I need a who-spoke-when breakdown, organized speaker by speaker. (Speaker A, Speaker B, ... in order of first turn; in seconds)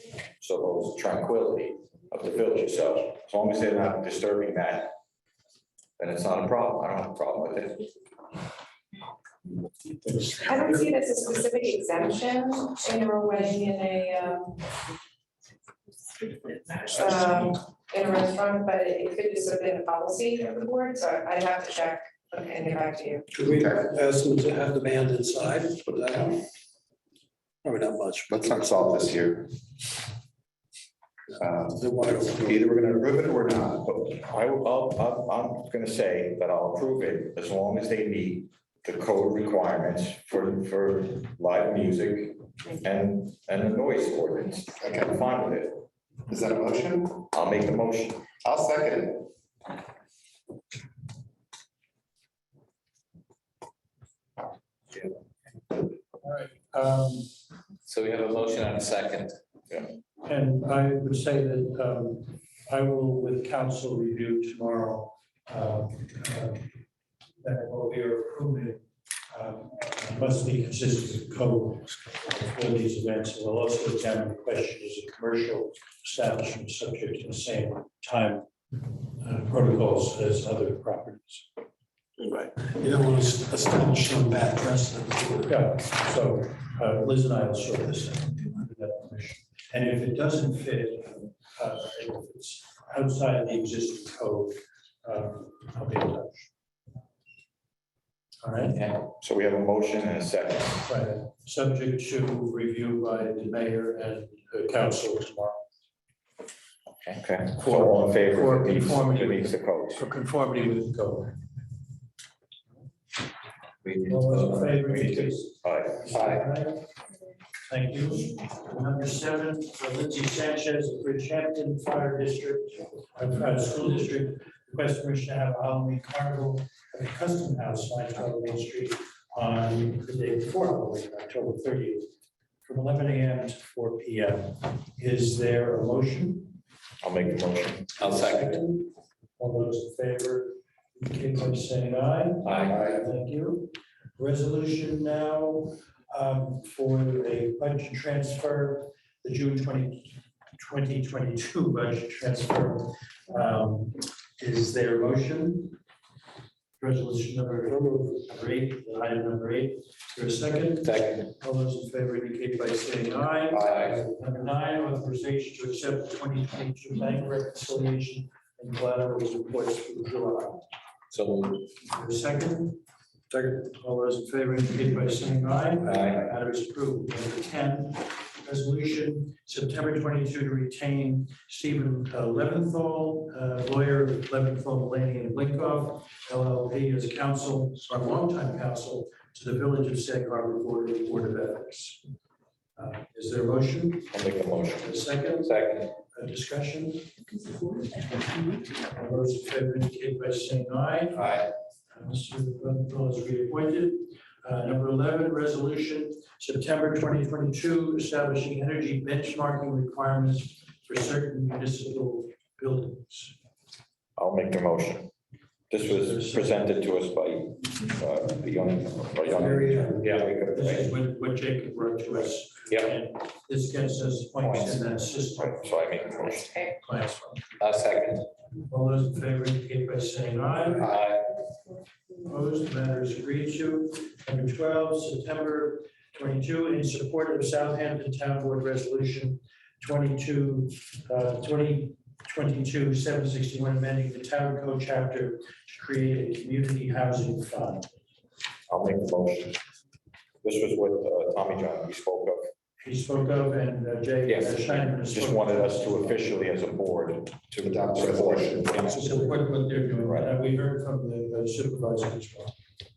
Speaker A: 0.4-4.9, 6.0-7.9, 32.5-45.8, 47.3-48.3, 98.7-100.9, 107.0-110.0, 113.9-116.4, 137.0-137.9, 194.1-194.9, 214.2-215.1, 215.7-220.9, 224.4-226.6, 248.7-249.6, 250.4-252.4, 254.3-259.2, 260.0-260.3
Speaker B: 10.1-10.8, 23.3-26.3, 27.6-29.1, 31.8-32.6, 82.2-85.5
Speaker C: 10.4-14.6, 16.8-23.3
Speaker D: 23.5-23.9, 28.3-29.5, 31.4-31.9, 33.1-33.7, 44.8-45.1, 46.3-47.2, 48.4-49.3, 257.5-259.2
Speaker E: 56.2-57.3, 60.2-66.7, 67.4-81.5, 85.5-96.5, 98.4-98.8, 100.8-105.6, 107.6-111.4, 114.1-116.9, 117.7-132.1, 132.7-136.6, 138.0-155.8, 156.8-170.7, 171.7-172.8, 173.3-192.0, 192.8-194.1, 194.8-197.5, 198.5-213.4, 215.8-216.7, 219.3-227.5, 228.6-231.0, 232.2-247.9, 252.8-256.3, 258.8-262.5
Speaker F: 57.9-59.3, 227.6-228.2